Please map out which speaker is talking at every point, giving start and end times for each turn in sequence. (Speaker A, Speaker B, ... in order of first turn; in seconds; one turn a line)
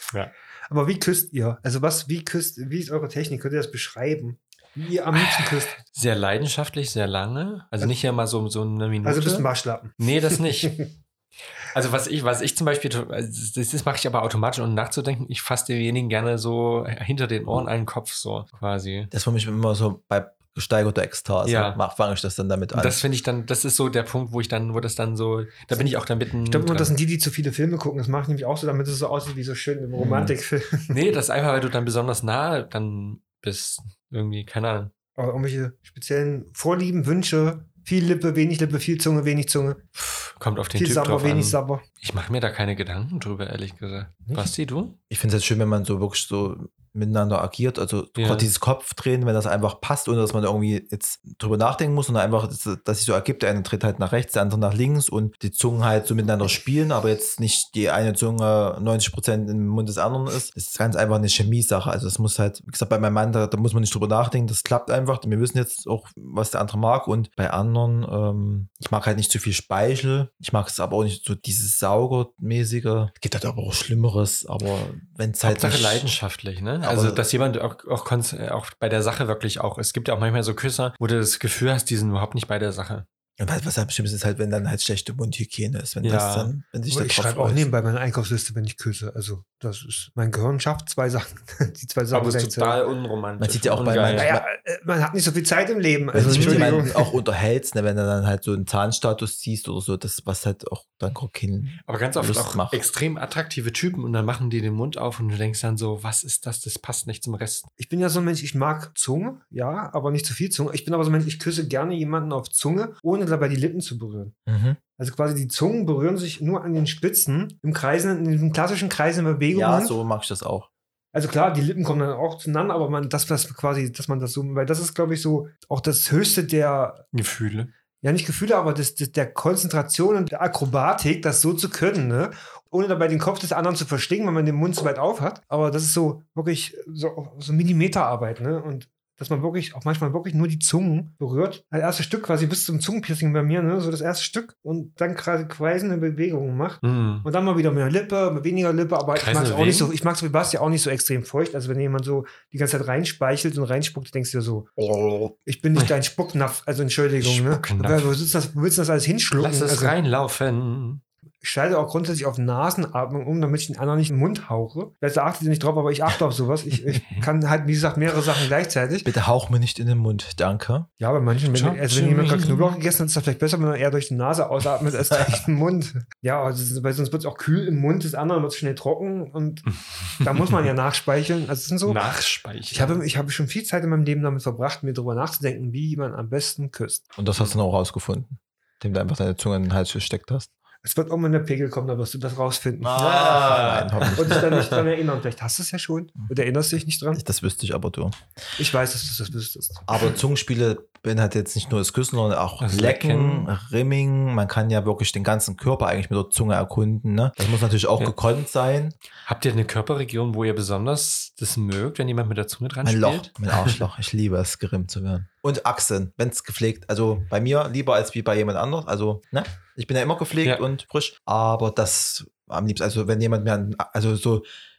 Speaker A: 0.7-5.8
Speaker B: 5.1-9.5
Speaker A: 9.0-10.8
Speaker B: 10.0-10.8
Speaker B: 11.7-19.1
Speaker C: 19.1-23.0
Speaker B: 21.4-21.8
Speaker B: 22.7-26.9
Speaker A: 26.4-31.0
Speaker B: 30.0-30.3
Speaker B: 30.9-34.9
Speaker A: 35.2-39.8
Speaker B: 40.0-45.0
Speaker A: 40.7-41.8
Speaker A: 44.2-44.5
Speaker C: 45.1-76.1
Speaker B: 48.2-48.5
Speaker B: 75.4-83.0
Speaker C: 76.8-77.2
Speaker C: 83.4-87.7
Speaker B: 86.0-86.5
Speaker A: 86.9-92.8
Speaker B: 92.1-94.3
Speaker C: 93.4-94.4
Speaker A: 94.1-97.1
Speaker C: 96.1-102.8
Speaker B: 96.2-96.7
Speaker B: 101.9-107.7
Speaker A: 107.8-114.3
Speaker C: 114.5-114.8
Speaker A: 115.0-119.9
Speaker C: 119.5-120.7
Speaker A: 121.1-127.0
Speaker B: 127.1-127.7
Speaker A: 128.0-154.7
Speaker B: 146.8-147.2
Speaker B: 149.1-149.9
Speaker C: 154.8-155.3
Speaker A: 155.4-159.9
Speaker B: 157.2-158.1
Speaker B: 159.4-161.0
Speaker A: 161.4-169.1
Speaker B: 166.9-167.3
Speaker C: 169.0-170.9
Speaker A: 171.0-179.7
Speaker B: 171.5-172.8
Speaker B: 179.7-180.7
Speaker A: 180.2-182.0
Speaker B: 181.8-183.0
Speaker A: 182.7-187.0
Speaker C: 187.2-190.5
Speaker A: 190.8-193.4
Speaker C: 192.8-194.5
Speaker B: 192.9-194.8
Speaker A: 194.1-197.2
Speaker C: 197.1-198.2
Speaker A: 198.6-199.9
Speaker C: 199.9-208.9
Speaker B: 202.6-203.5
Speaker B: 209.2-213.8
Speaker C: 212.8-224.4